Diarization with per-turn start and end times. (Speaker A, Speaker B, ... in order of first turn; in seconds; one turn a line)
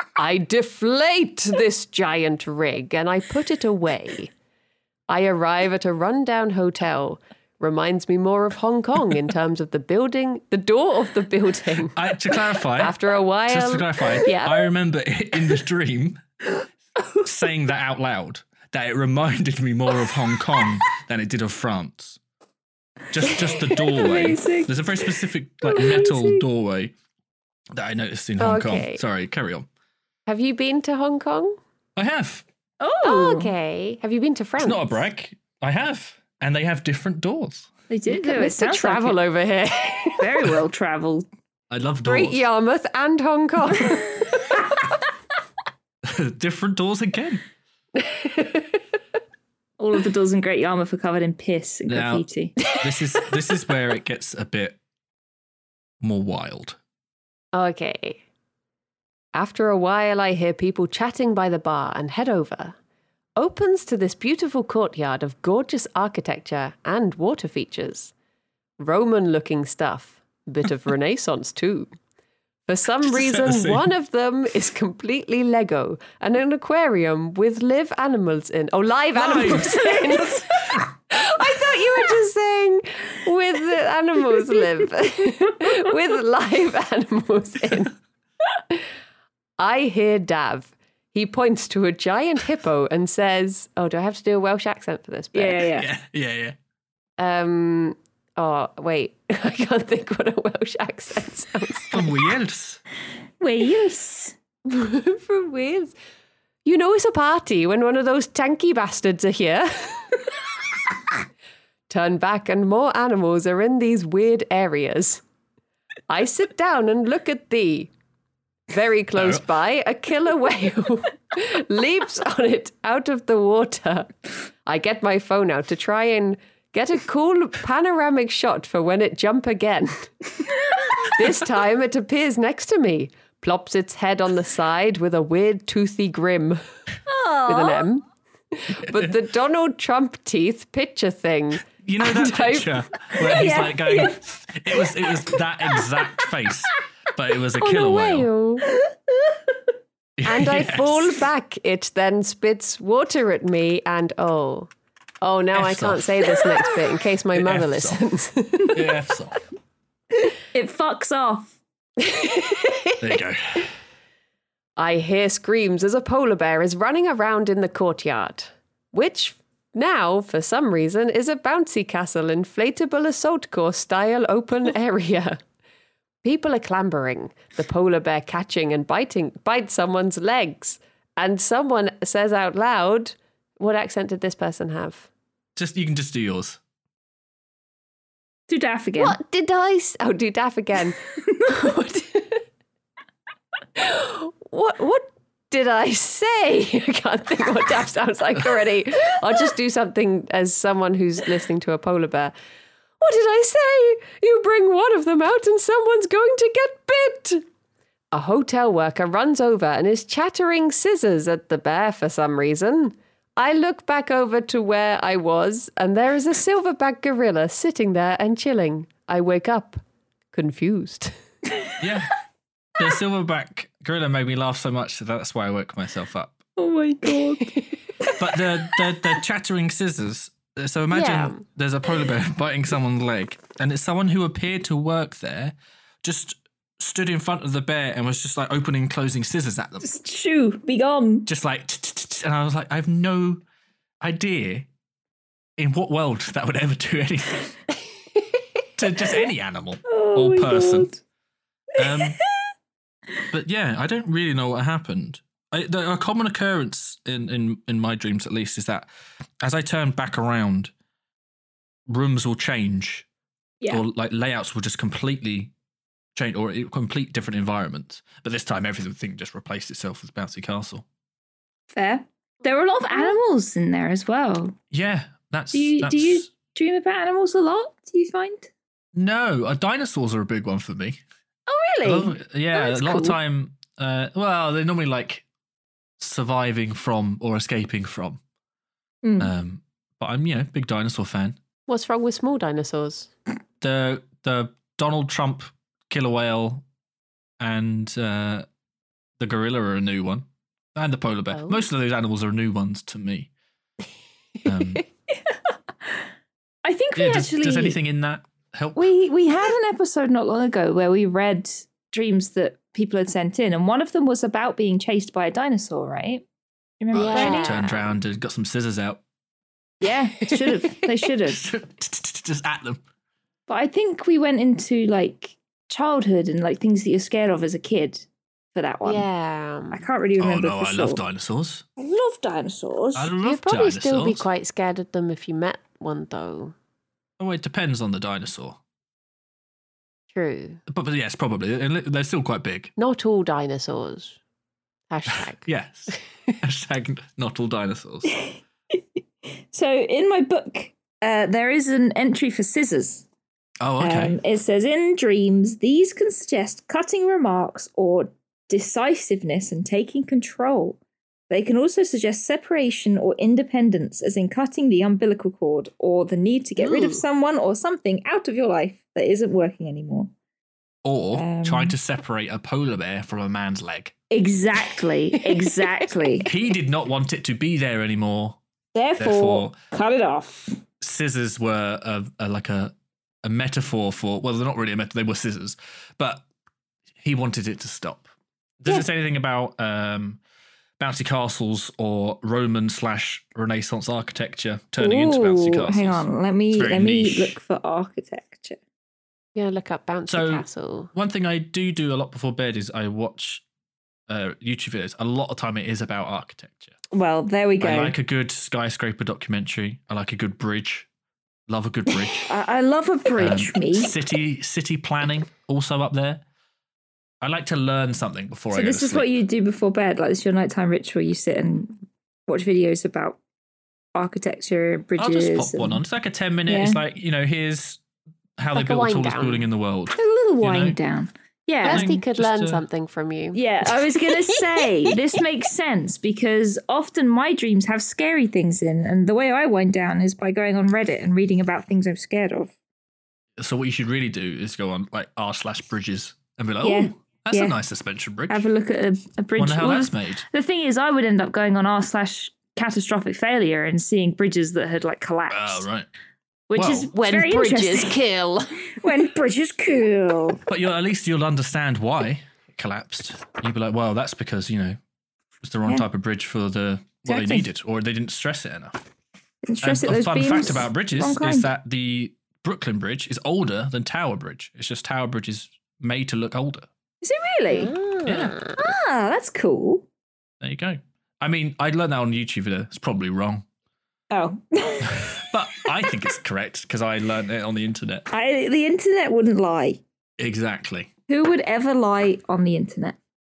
Speaker A: 0.2-4.3
Speaker A: 5.1-12.0
Speaker B: 11.9-13.0
Speaker A: 12.8-14.7
Speaker B: 13.5-16.2
Speaker B: 17.2-22.2
Speaker B: 23.1-26.9
Speaker C: 23.2-25.1
Speaker C: 25.6-26.4
Speaker B: 27.7-29.7
Speaker A: 28.4-29.0
Speaker A: 30.3-31.6
Speaker B: 32.0-32.5
Speaker C: 32.8-33.5
Speaker A: 33.0-35.0
Speaker B: 34.6-37.7
Speaker C: 37.9-39.2
Speaker A: 38.1-40.5
Speaker C: 40.1-41.3
Speaker B: 41.7-42.4
Speaker A: 42.0-44.5
Speaker B: 46.0-47.4
Speaker A: 48.0-48.6
Speaker C: 49.8-52.6
Speaker B: 51.9-54.8
Speaker B: 56.0-56.8
Speaker A: 57.5-58.2
Speaker A: 59.3-62.8
Speaker A: 63.4-68.1
Speaker A: 68.8-71.9
Speaker A: 72.7-88.0
Speaker B: 73.0-73.9
Speaker B: 79.2-80.9
Speaker A: 89.6-95.6
Speaker C: 95.3-95.9
Speaker B: 95.8-96.6
Speaker A: 97.2-102.1
Speaker B: 101.9-102.8
Speaker C: 103.4-104.4
Speaker A: 104.7-106.0
Speaker A: 106.7-110.2
Speaker A: 111.9-115.2
Speaker A: 116.1-117.9
Speaker A: 118.7-124.1
Speaker B: 119.2-119.5
Speaker A: 124.7-130.1
Speaker A: 131.0-136.6
Speaker C: 137.1-137.8
Speaker A: 137.5-142.8
Speaker B: 138.8-139.1
Speaker B: 141.8-148.3
Speaker C: 143.2-144.2
Speaker C: 144.8-145.2
Speaker A: 147.6-148.7
Speaker C: 148.7-149.4
Speaker B: 150.2-151.2
Speaker A: 150.2-158.8
Speaker B: 155.5-156.3
Speaker B: 157.3-158.0
Speaker B: 158.7-159.4
Speaker C: 160.5-161.6
Speaker A: 162.0-163.0
Speaker B: 163.0-163.7
Speaker A: 164.8-175.4
Speaker A: 176.2-185.1
Speaker B: 185.6-186.6
Speaker C: 188.5-189.2
Speaker A: 189.0-192.4
Speaker A: 193.8-202.3
Speaker A: 203.0-207.4
Speaker A: 208.1-219.8
Speaker A: 220.3-221.2
Speaker B: 221.8-222.1
Speaker B: 222.8-226.4
Speaker C: 226.6-228.2
Speaker B: 228.2-239.9
Speaker A: 230.9-231.4
Speaker C: 239.8-241.3
Speaker B: 241.3-243.4
Speaker B: 244.0-244.7
Speaker B: 245.6-247.6
Speaker B: 248.8-250.9
Speaker C: 249.9-251.0
Speaker B: 251.8-252.2
Speaker C: 251.8-252.2
Speaker B: 253.3-258.9
Speaker B: 259.4-260.7
Speaker B: 261.9-263.1
Speaker B: 263.7-265.5
Speaker B: 266.1-270.9
Speaker C: 271.7-274.6
Speaker B: 274.7-276.3
Speaker C: 275.5-278.5
Speaker B: 278.9-281.0
Speaker C: 281.5-283.2
Speaker B: 281.8-285.2
Speaker B: 286.0-288.2
Speaker C: 289.0-289.3
Speaker B: 289.2-291.4
Speaker A: 291.7-293.1
Speaker B: 293.6-296.6
Speaker B: 297.4-298.5
Speaker B: 299.2-303.3
Speaker A: 301.3-301.7
Speaker B: 304.4-304.8
Speaker C: 306.6-307.8
Speaker B: 307.0-308.9
Speaker C: 308.8-316.2
Speaker C: 316.8-317.6
Speaker B: 316.9-319.0
Speaker A: 317.0-317.8
Speaker C: 319.8-321.4
Speaker B: 321.2-322.8
Speaker C: 323.5-329.1
Speaker A: 328.9-329.9
Speaker C: 329.7-331.0
Speaker B: 330.2-331.6
Speaker C: 331.8-333.1
Speaker B: 332.9-334.2
Speaker A: 333.2-336.5
Speaker B: 337.2-338.6
Speaker A: 340.1-340.6
Speaker B: 340.7-342.7
Speaker A: 342.8-344.2
Speaker A: 344.9-345.5
Speaker B: 345.1-348.1
Speaker C: 348.1-348.8
Speaker C: 349.5-353.1
Speaker B: 353.6-354.2
Speaker C: 353.8-360.8
Speaker C: 361.3-370.1
Speaker A: 366.6-367.0
Speaker B: 370.8-373.9
Speaker C: 371.1-371.8
Speaker C: 374.1-376.3
Speaker A: 375.3-375.6
Speaker B: 376.2-378.4
Speaker C: 378.8-380.6
Speaker B: 379.0-379.6
Speaker B: 380.8-386.2
Speaker B: 387.0-388.1
Speaker B: 388.6-390.2
Speaker B: 390.8-397.4
Speaker C: 394.8-398.6
Speaker A: 399.4-400.9
Speaker B: 400.1-403.4
Speaker B: 404.1-406.8
Speaker C: 406.9-407.9
Speaker B: 407.6-410.9
Speaker B: 411.5-412.3
Speaker C: 412.2-413.9
Speaker B: 413.2-416.2
Speaker B: 417.2-419.1
Speaker C: 418.5-423.2
Speaker C: 423.9-425.8
Speaker B: 425.0-427.8
Speaker C: 426.5-426.8
Speaker B: 428.4-430.8
Speaker A: 428.5-429.5
Speaker C: 429.9-431.9
Speaker B: 431.6-432.6
Speaker A: 431.6-433.4
Speaker C: 433.3-442.5
Speaker B: 443.4-448.5
Speaker C: 446.6-447.6
Speaker C: 448.3-455.7
Speaker B: 449.4-450.2
Speaker B: 455.3-455.9
Speaker C: 456.5-458.0
Speaker B: 456.6-456.9
Speaker A: 456.9-458.7
Speaker C: 458.8-460.4
Speaker B: 460.5-464.8
Speaker B: 465.4-468.8
Speaker C: 467.1-467.5
Speaker C: 469.4-471.5
Speaker B: 469.6-476.7
Speaker C: 477.0-477.7
Speaker A: 477.5-478.7
Speaker B: 478.1-478.3
Speaker C: 478.6-479.9
Speaker B: 480.4-483.4
Speaker C: 484.1-486.0
Speaker B: 484.8-488.1
Speaker C: 488.1-489.8
Speaker B: 490.2-490.9
Speaker C: 491.1-493.0